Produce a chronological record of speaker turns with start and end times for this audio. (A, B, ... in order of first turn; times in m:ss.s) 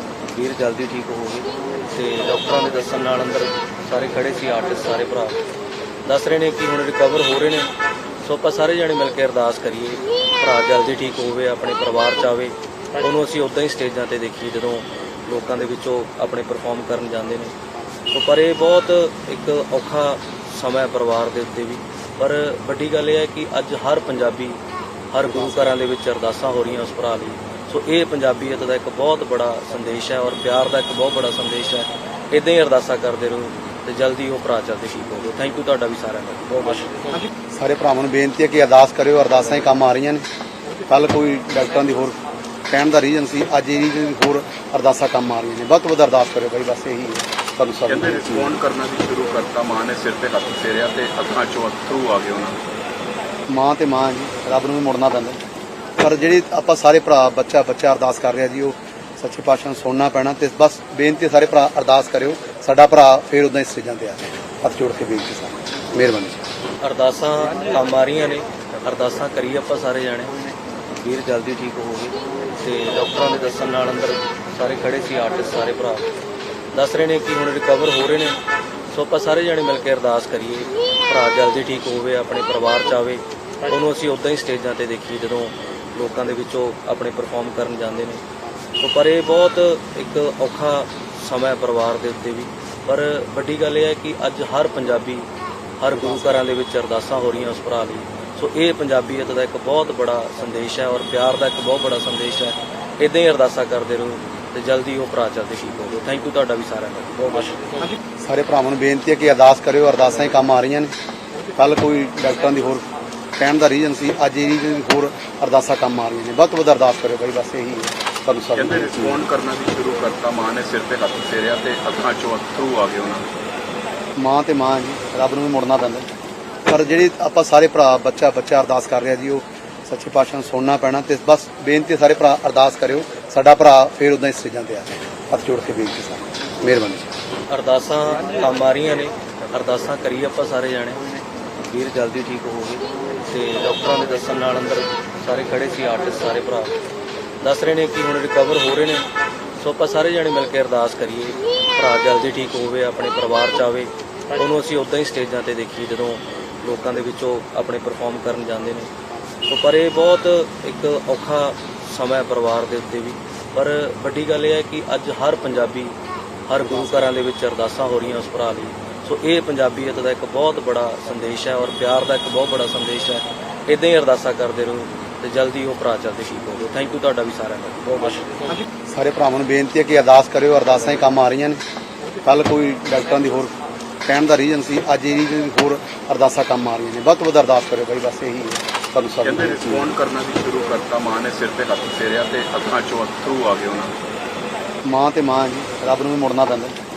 0:00.4-0:05.4 A
0:06.0-0:07.7 A
0:08.2-0:17.5 A
0:18.1-0:24.6 A
0:25.1-0:36.9 A
0:37.5-0:40.3 B
0:40.9-0:42.2 B
0:42.7-0:48.6 B
0:47.9-0:52.6 C
0:53.5-0:55.4 B
0:56.0-1:06.4 B
1:06.8-1:10.4 A
1:11.0-1:16.0 A
1:16.7-1:18.4 A
1:18.9-1:28.2 A
1:28.8-1:35.3 A
1:35.8-1:47.7 A
1:36.0-1:36.4 B
1:48.2-1:50.9 B
1:51.6-1:52.9 B
1:53.4-1:59.2 B
1:58.6-2:03.3 C
2:04.2-2:06.1 B
2:06.7-2:17.1 B
2:17.5-2:21.0 A
2:21.7-2:26.7 A
2:27.4-2:29.0 A
2:29.6-2:38.9 A
2:39.5-2:46.0 A
2:46.5-2:58.3 A
2:46.7-2:46.9 B
2:58.9-3:01.6 B
3:02.2-3:03.5 B
3:04.1-3:09.9 B
3:09.2-3:13.9 C
3:14.9-3:16.8 B